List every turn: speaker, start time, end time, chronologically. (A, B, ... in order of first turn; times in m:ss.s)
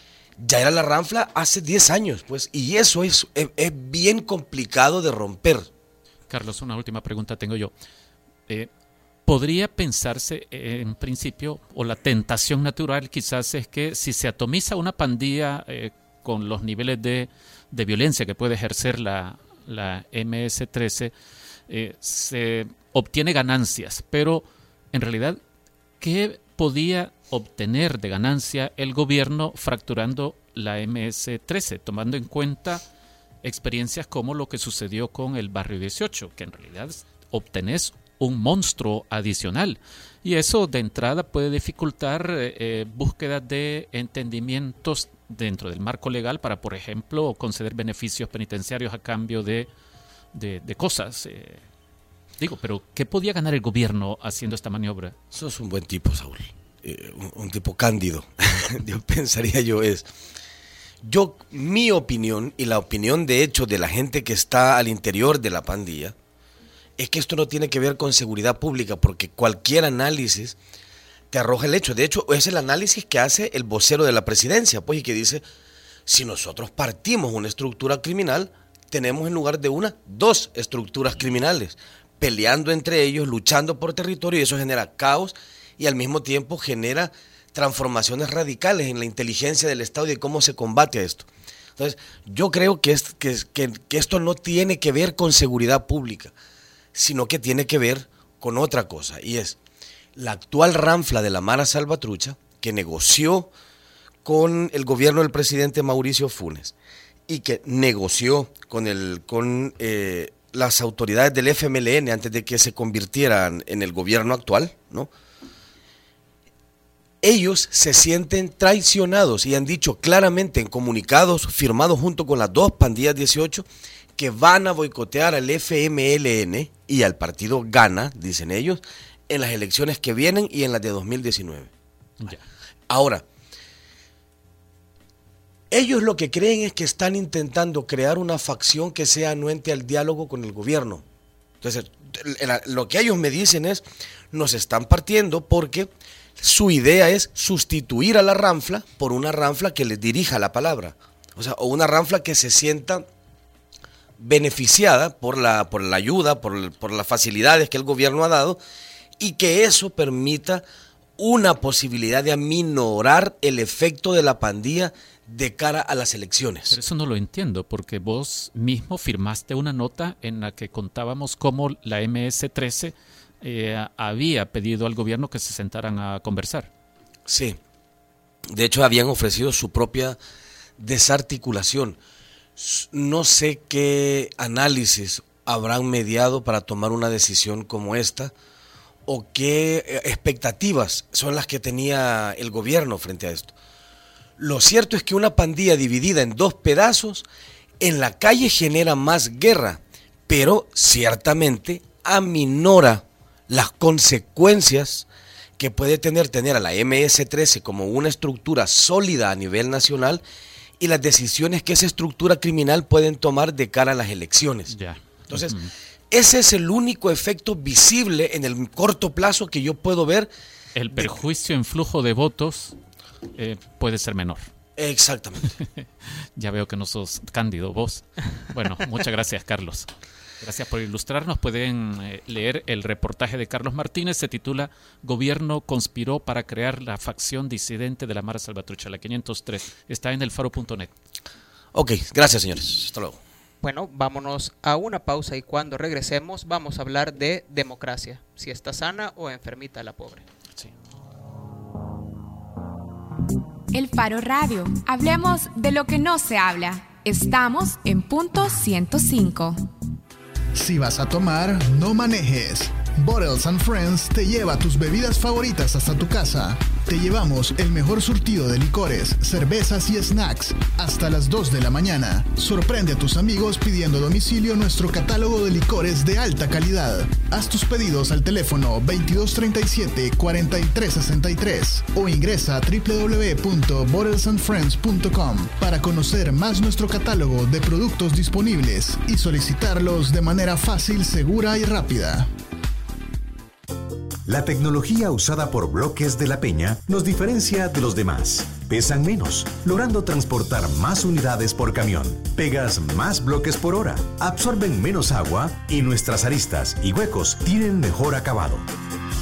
0:00.4-0:05.7 A
0:06.3-0:07.7 B
0:09.2-0:21.1 B
0:21.7-0:25.4 B
0:26.0-0:32.8 B
0:33.4-0:49.7 B
0:50.3-0:51.6 B
0:52.4-0:55.1 B
0:55.3-1:00.1 A
1:01.0-1:06.1 A
1:07.0-1:10.6 A
1:11.3-1:15.4 A
1:16.1-1:36.3 A
1:36.9-1:39.6 A
1:40.2-1:43.5 A
1:44.2-1:46.7 A
1:47.3-1:55.1 A
1:57.2-2:03.6 A
2:04.2-2:11.7 A
2:12.9-2:13.2 A
2:15.7-2:21.0 A
2:21.6-2:33.0 A
2:34.2-2:38.6 A
2:39.2-2:40.6 A
2:41.2-2:46.8 A
2:46.7-2:56.7 B
2:57.3-2:57.6 A
2:58.5-3:00.2 A
3:00.8-3:02.0 A
3:02.6-3:08.3 A
3:09.0-3:13.5 A
3:14.4-3:17.3 A
3:17.8-3:25.1 A
3:25.6-3:30.2 A
3:30.8-3:34.7 A
3:34.7-3:35.7 B
3:35.3-3:35.5 A
3:36.1-3:40.3 A
3:40.8-3:42.7 B
3:43.3-3:44.4 B
3:44.8-3:45.5 A
3:45.5-3:49.9 B
3:50.4-4:00.9 B
4:01.7-4:03.2 A
4:03.6-4:10.2 C
4:13.7-4:19.6 D
4:20.6-4:52.2 E
4:54.2-5:08.7 F